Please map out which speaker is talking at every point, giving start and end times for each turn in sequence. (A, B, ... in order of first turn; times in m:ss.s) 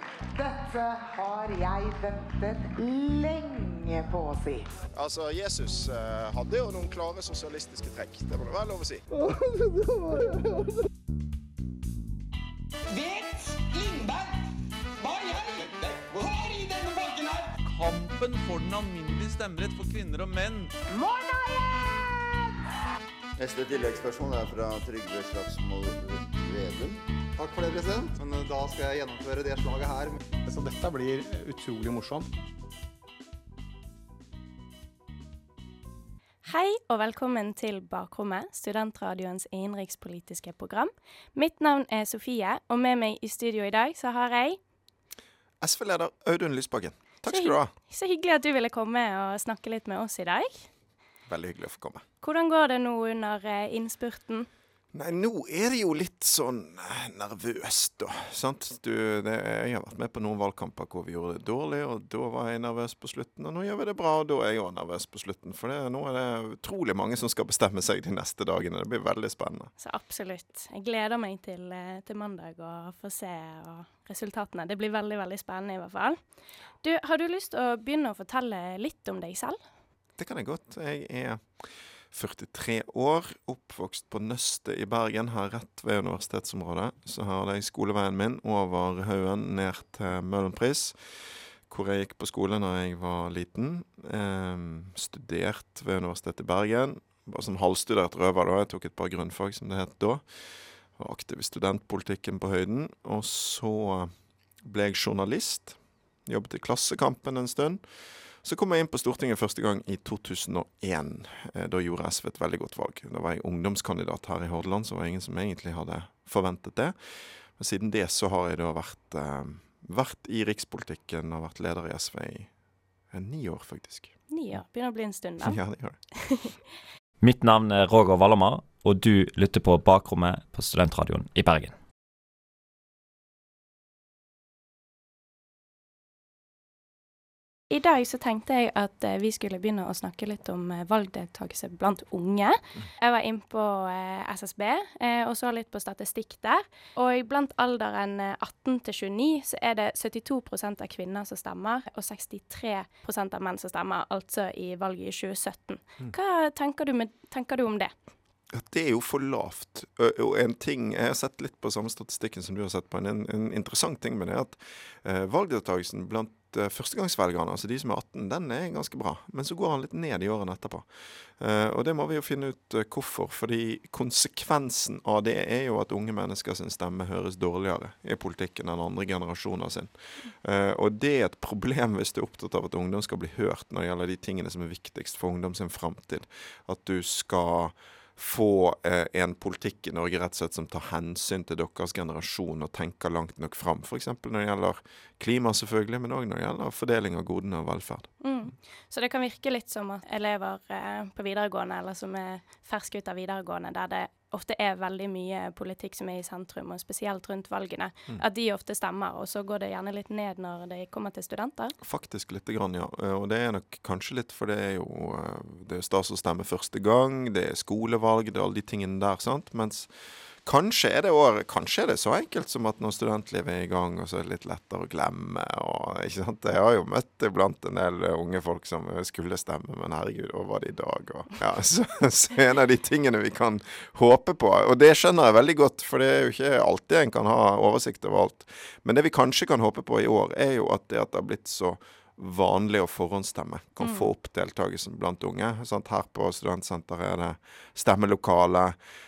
0:00.4-0:04.6 A
0:05.0-0:09.0 B
0:12.9-0:14.3 C
0:15.0-0:17.5 C
0:17.6-0:20.7 D
0:21.0-0:21.6 A
0:23.4-0:27.0 E
0:28.2-0:32.3 F
0:36.4-0:44.6 G
0:45.6-0:47.7 B
0:47.3-0:50.7 G
0:51.3-0:52.0 B
0:52.2-0:54.5 G
0:54.9-1:09.7 B
1:09.8-1:16.2 G
1:16.8-1:19.6 G
1:20.2-1:21.4 B
1:22.1-1:30.9 B
1:31.7-1:40.2 B
1:41.0-1:44.1 B
1:44.6-1:47.8 B
1:48.4-1:56.9 B
1:57.6-2:02.5 B
2:03.1-2:04.2 B
2:04.3-2:05.6 G
2:05.4-2:06.0 B
2:07.2-2:11.7 H
2:17.7-2:37.9 G
2:38.5-2:50.8 B
2:51.4-3:18.1 B
3:18.2-3:31.7 G
3:31.8-3:39.9 B
3:40.4-4:08.8 B
4:03.8-4:04.1 G